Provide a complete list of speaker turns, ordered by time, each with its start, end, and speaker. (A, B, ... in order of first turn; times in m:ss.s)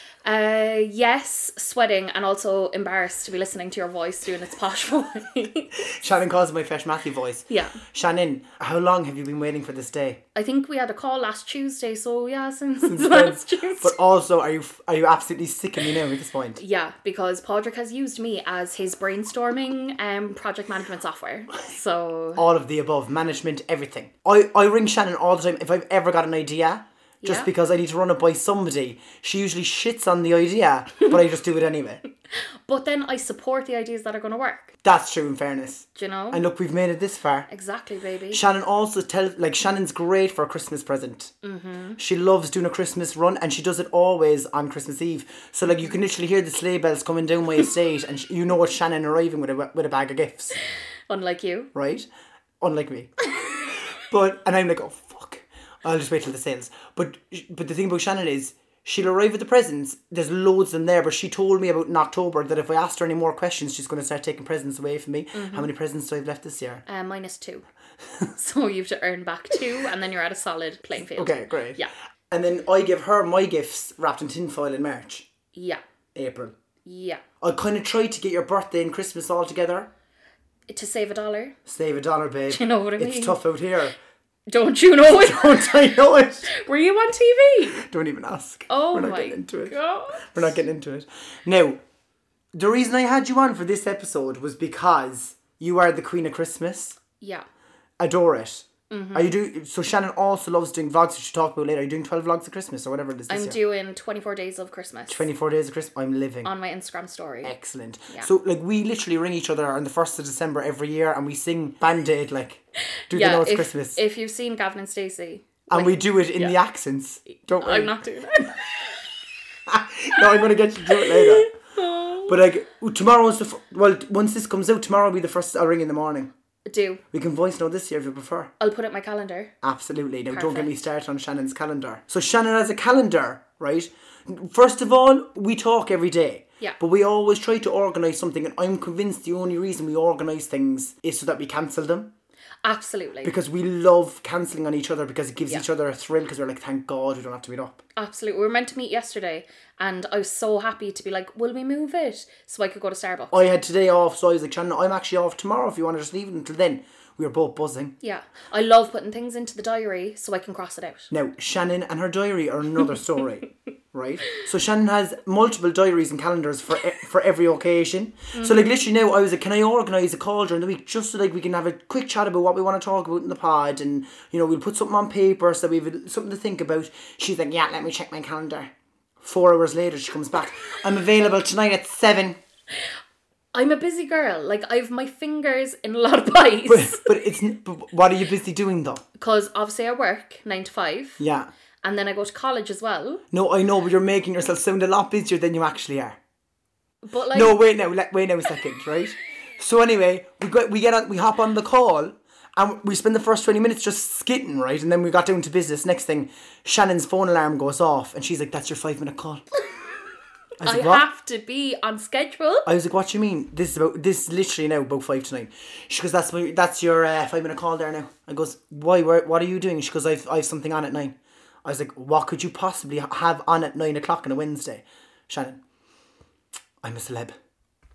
0:00.2-0:06.0 A
0:05.9-0:10.2 B
0:07.5-0:07.8 A
0:10.4-0:14.0 A
0:12.8-0:16.6 B
0:16.6-0:22.4 A
0:22.4-0:32.0 B
0:27.2-0:27.5 A
0:32.7-0:34.8 A
0:34.8-0:37.5 B
0:36.0-0:36.4 A
0:37.5-0:38.4 A
0:38.3-0:41.3 B
0:41.4-0:42.0 A
0:42.0-0:50.6 B
0:51.1-0:51.7 A
0:51.7-0:52.1 B
0:52.6-1:06.8 B
1:05.3-1:05.7 A
1:06.9-1:07.6 A
1:08.3-1:11.9 A
1:11.0-1:15.3 B
1:15.6-1:15.8 A
1:16.2-1:16.6 B
1:16.8-1:17.2 A
1:17.4-1:19.9 B
1:20.7-1:21.6 A
1:21.7-1:24.0 B
1:22.5-1:23.4 A
1:24.5-1:27.8 A
1:25.0-1:26.5 B
1:27.8-1:31.8 B
1:28.7-1:30.6 A
1:32.5-1:37.0 B
1:37.2-1:37.5 A
1:38.0-1:43.6 B
1:38.9-1:39.4 A
1:43.3-1:45.3 A
1:45.1-1:46.5 B
1:46.4-1:47.5 A
1:47.4-1:54.0 B
1:53.1-1:56.6 A
1:55.7-1:58.0 B
1:57.3-1:58.6 A
1:59.7-2:01.5 B
2:00.9-2:02.3 A
2:02.3-2:06.3 B
2:06.7-2:07.0 A
2:07.1-2:08.5 B
2:08.6-2:09.5 A
2:09.6-2:22.1 B
2:10.3-2:10.7 A
2:22.6-2:23.4 A
2:23.2-2:27.8 B
2:28.0-2:33.4 A
2:33.3-2:38.0 B
2:38.0-2:41.1 A
2:41.1-3:02.4 B
2:48.3-2:48.7 A
3:03.5-3:07.1 A
3:06.7-3:09.0 B
3:09.2-3:11.2 A
3:11.2-3:11.5 B
3:11.8-3:13.2 A
3:13.3-3:16.2 B
3:17.0-3:17.6 A
3:17.3-3:29.4 B
3:30.6-3:31.1 B
3:30.6-3:32.7 A
3:32.6-3:45.6 B
3:46.8-3:47.4 B